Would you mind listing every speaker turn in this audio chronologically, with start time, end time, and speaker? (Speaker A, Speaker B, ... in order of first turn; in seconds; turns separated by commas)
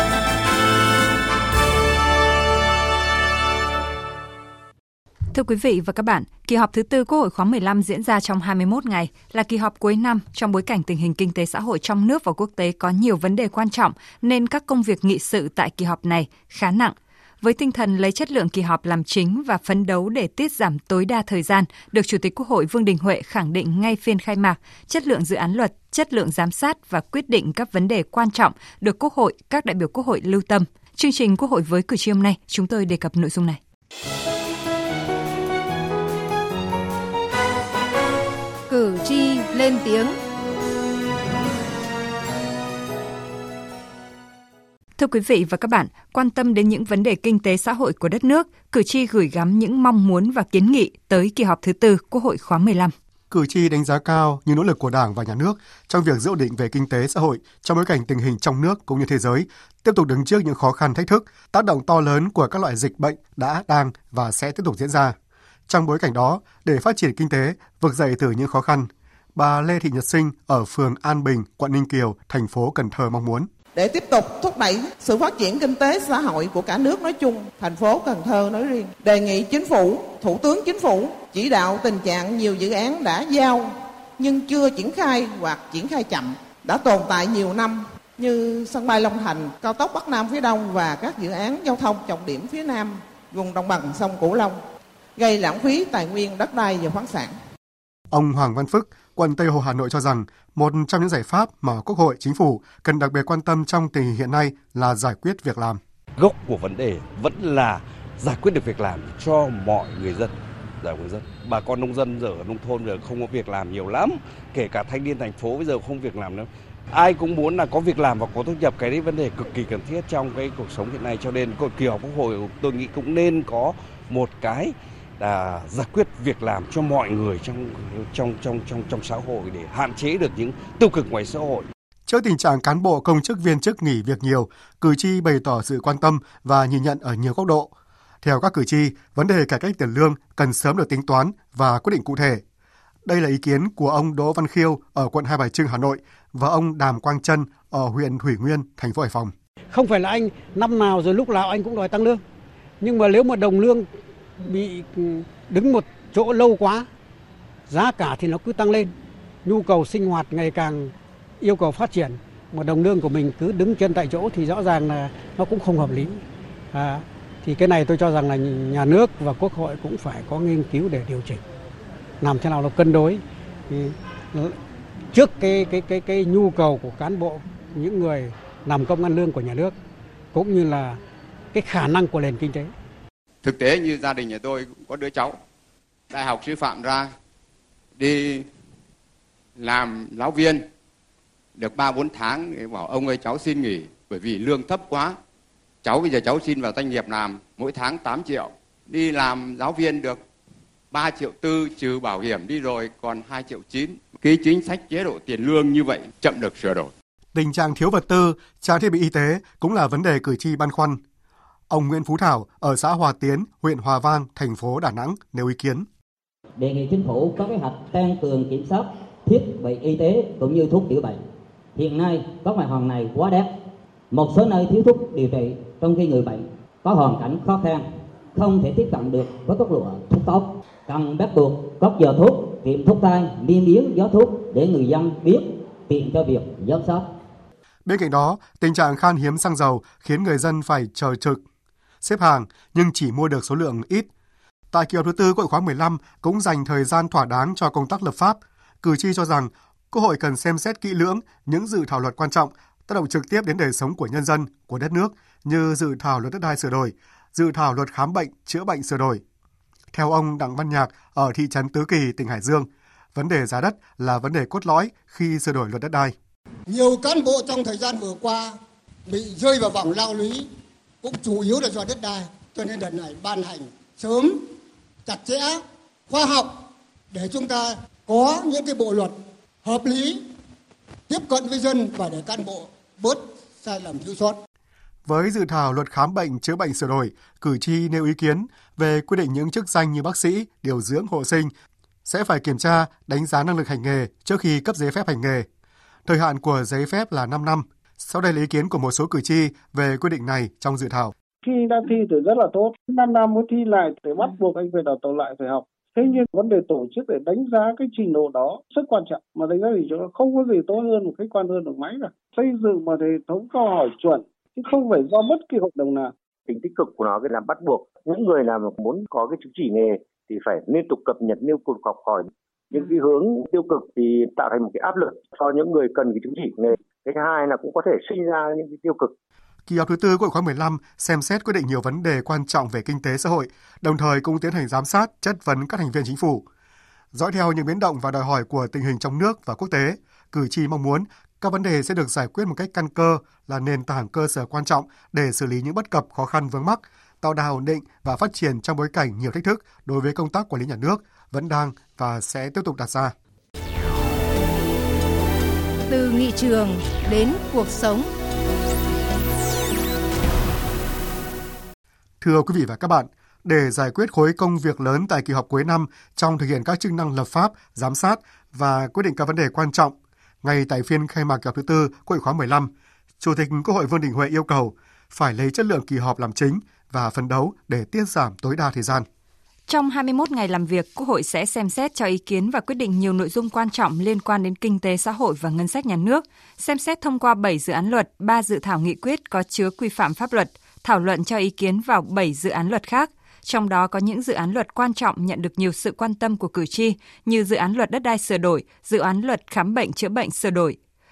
Speaker A: 5.3-33.6, Speaker B: 38.7-40.1, Speaker A: 45.0-52.9, Speaker C: 53.3-65.2, Speaker C: 65.7-73.5, Speaker D: 73.8-94.6, Speaker D: 95.2-97.4, Speaker C: 98.1-105.8, Speaker E: 106.2-131.7, Speaker C: 132.1-137.7, Speaker C: 138.2-142.4, Speaker C: 143.1-149.3, Speaker F: 149.7-152.2, Speaker F: 152.8-153.9, Speaker F: 154.4-156.9, Speaker F: 157.7-158.9, Speaker F: 159.4-171.4, Speaker F: 172.2-174.6, Speaker F: 175.1-179.8, Speaker F: 180.3-181.0, Speaker F: 181.5-182.7, Speaker G: 183.4-185.4, Speaker G: 186.1-187.1, Speaker G: 188.0-188.5, Speaker G: 189.6-190.7, Speaker G: 191.6-195.2, Speaker G: 195.8-200.2, Speaker G: 200.9-206.9, Speaker C: 207.3-211.0, Speaker C: 211.7-215.9, Speaker H: 216.6-221.2, Speaker H: 221.8-223.5, Speaker H: 224.1-237.1, Speaker C: 237.9-241.4, Speaker C: 242.0-244.1, Speaker C: 244.7-259.2, Speaker C: 259.9-266.1, Speaker I: 266.7-268.5, Speaker I: 269.1-270.4, Speaker I: 271.0-274.4, Speaker I: 275.1-276.6, Speaker I: 277.1-280.2, Speaker I: 281.1-284.4, Speaker C: 285.1-291.5, Speaker C: 292.1-295.5, Speaker C: 296.1-301.1, Speaker J: 301.4-316.1, Speaker K: 316.5-329.1, Speaker C: 329.7-336.5, Speaker C: 337.1-353.1, Speaker B: 355.9-358.1, Speaker C: 362.2-379.1, Speaker A: 379.7-400.8